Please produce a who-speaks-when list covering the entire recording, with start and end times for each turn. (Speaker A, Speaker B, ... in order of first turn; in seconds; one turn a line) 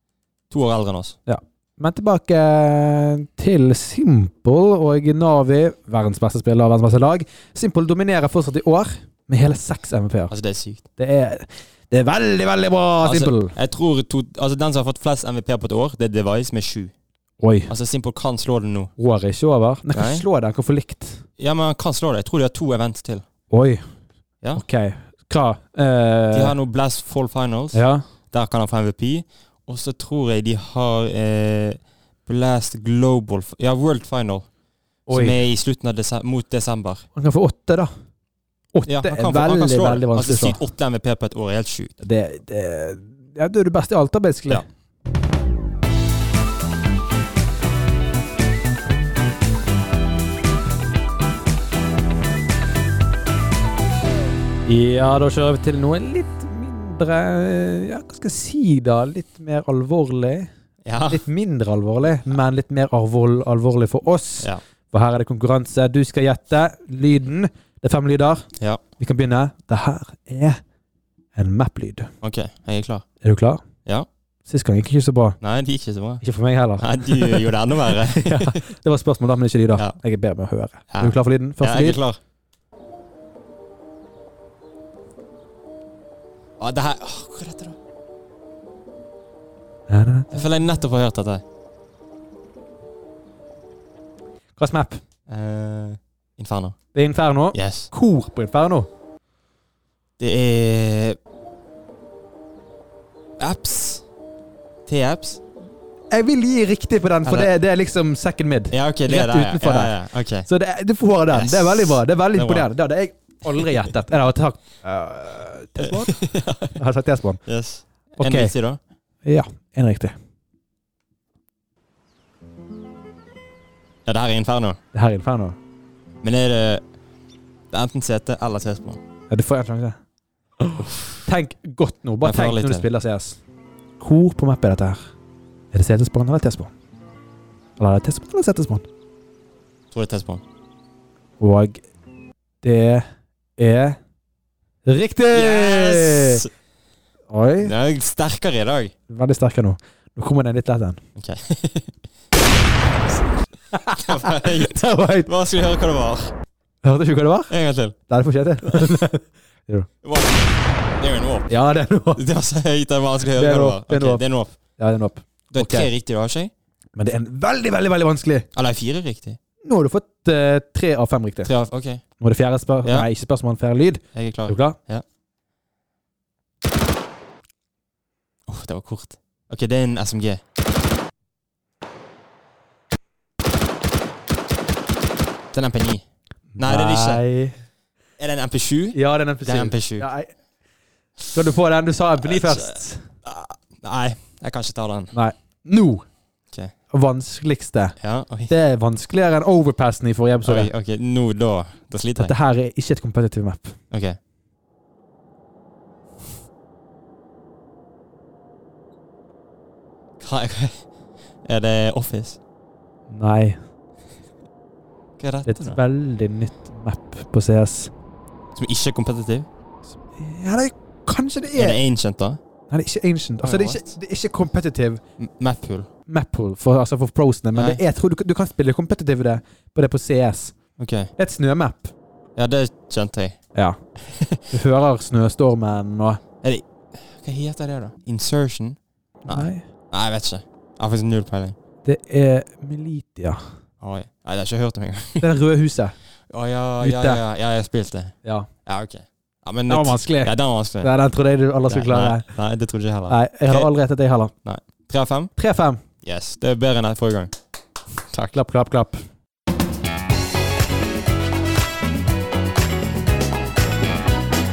Speaker A: 0.5-1.2
Speaker B: 1.3-10.3
Speaker A: 10.3-10.8
Speaker B: 11.0-13.5
Speaker A: 13.0-16.9
Speaker B: 17.4-17.7
Speaker A: 17.7-18.9
Speaker B: 19.0-21.2
Speaker A: 19.9-20.2
Speaker A: 21.4-23.2
Speaker B: 23.5-23.8
Speaker B: 24.6-26.6
Speaker A: 26.3-34.5
Speaker B: 27.7-28.1
Speaker B: 35.1-35.4
Speaker A: 35.1-37.0
Speaker B: 37.1-37.9
Speaker B: 38.7-40.6
Speaker A: 38.9-42.0
Speaker B: 42.0-44.6
Speaker B: 54.7-60.5
Speaker A: 60.9-61.2
Speaker B: 61.1-68.5
Speaker B: 69.0-70.6
Speaker B: 71.3-72.1
Speaker A: 72.2-73.0
Speaker B: 73.2-73.6
Speaker B: 74.5-75.4
Speaker A: 75.4-76.2
Speaker B: 76.2-82.0
Speaker A: 76.8-78.6
Speaker A: 80.9-82.2
Speaker A: 86.6-87.8
Speaker B: 89.9-90.3
Speaker A: 90.3-91.4
Speaker B: 94.6-95.0
Speaker A: 95.3-96.8
Speaker B: 96.9-98.9
Speaker A: 97.5-97.9
Speaker A: 100.2-101.2
Speaker A: 103.4-104.0
Speaker A: 104.9-105.4
Speaker B: 106.1-116.1
Speaker A: 107.2-107.5
Speaker A: 108.7-110.5
Speaker A: 111.3-112.7
Speaker A: 115.8-116.8
Speaker B: 116.8-117.4
Speaker A: 117.5-118.8
Speaker B: 118.2-118.5
Speaker B: 119.2-120.1
Speaker A: 124.1-124.8
Speaker B: 124.9-125.6
Speaker A: 126.2-126.8
Speaker A: 127.7-129.0
Speaker B: 129.3-130.0
Speaker B: 130.7-133.4
Speaker A: 130.9-131.1
Speaker A: 132.2-132.9
Speaker B: 134.0-135.1
Speaker B: 135.7-136.7
Speaker B: 137.8-138.9
Speaker A: 139.9-140.4
Speaker B: 141.4-141.8
Speaker B: 142.6-143.1
Speaker B: 143.6-144.0
Speaker B: 144.8-146.4
Speaker A: 145.3-146.5
Speaker B: 147.3-147.7
Speaker A: 147.6-148.9
Speaker B: 149.1-151.0
Speaker A: 151.2-151.9
Speaker B: 153.7-155.3
Speaker A: 153.9-156.3
Speaker B: 156.8-157.5
Speaker A: 157.5-157.9
Speaker B: 158.1-159.9
Speaker A: 158.6-159.0
Speaker A: 160.0-160.4
Speaker A: 161.0-161.5
Speaker B: 161.5-162.2
Speaker A: 162.2-164.6
Speaker B: 163.3-164.2
Speaker B: 164.8-165.9
Speaker A: 165.5-166.5
Speaker B: 167.0-168.5
Speaker A: 168.5-169.4
Speaker B: 169.7-171.5
Speaker A: 171.4-172.0
Speaker B: 172.2-174.8
Speaker A: 172.8-173.1
Speaker A: 174.1-175.0
Speaker A: 178.5-180.4
Speaker A: 185.5-186.0
Speaker A: 186.6-187.2
Speaker B: 186.6-187.6
Speaker A: 188.2-190.1
Speaker B: 188.9-190.3
Speaker B: 191.3-193.1
Speaker A: 192.2-192.7
Speaker A: 193.2-195.1
Speaker B: 195.1-196.1
Speaker B: 196.9-200.7
Speaker A: 198.0-198.5
Speaker A: 200.4-202.3
Speaker B: 202.2-203.8
Speaker A: 203.9-204.2
Speaker A: 210.2-210.8
Speaker A: 211.5-212.4
Speaker B: 213.1-213.6
Speaker A: 215.2-215.8
Speaker B: 215.5-217.9
Speaker A: 218.6-219.5
Speaker B: 220.1-221.8
Speaker A: 221.5-222.4
Speaker B: 222.7-225.0
Speaker A: 223.4-224.0
Speaker A: 225.2-225.9
Speaker B: 226.1-231.9
Speaker A: 227.6-227.8
Speaker A: 230.8-231.1
Speaker A: 232.4-233.4
Speaker B: 233.6-236.2
Speaker A: 234.1-234.4
Speaker A: 236.4-241.6
Speaker B: 239.3-239.7
Speaker B: 241.8-243.4
Speaker A: 243.8-245.2
Speaker B: 245.2-245.9
Speaker A: 246.3-250.9
Speaker B: 246.8-247.2
Speaker B: 249.7-252.3
Speaker A: 251.7-253.7
Speaker B: 253.1-254.3
Speaker A: 254.4-255.3
Speaker B: 255.4-255.8
Speaker A: 256.0-257.4
Speaker B: 258.3-259.0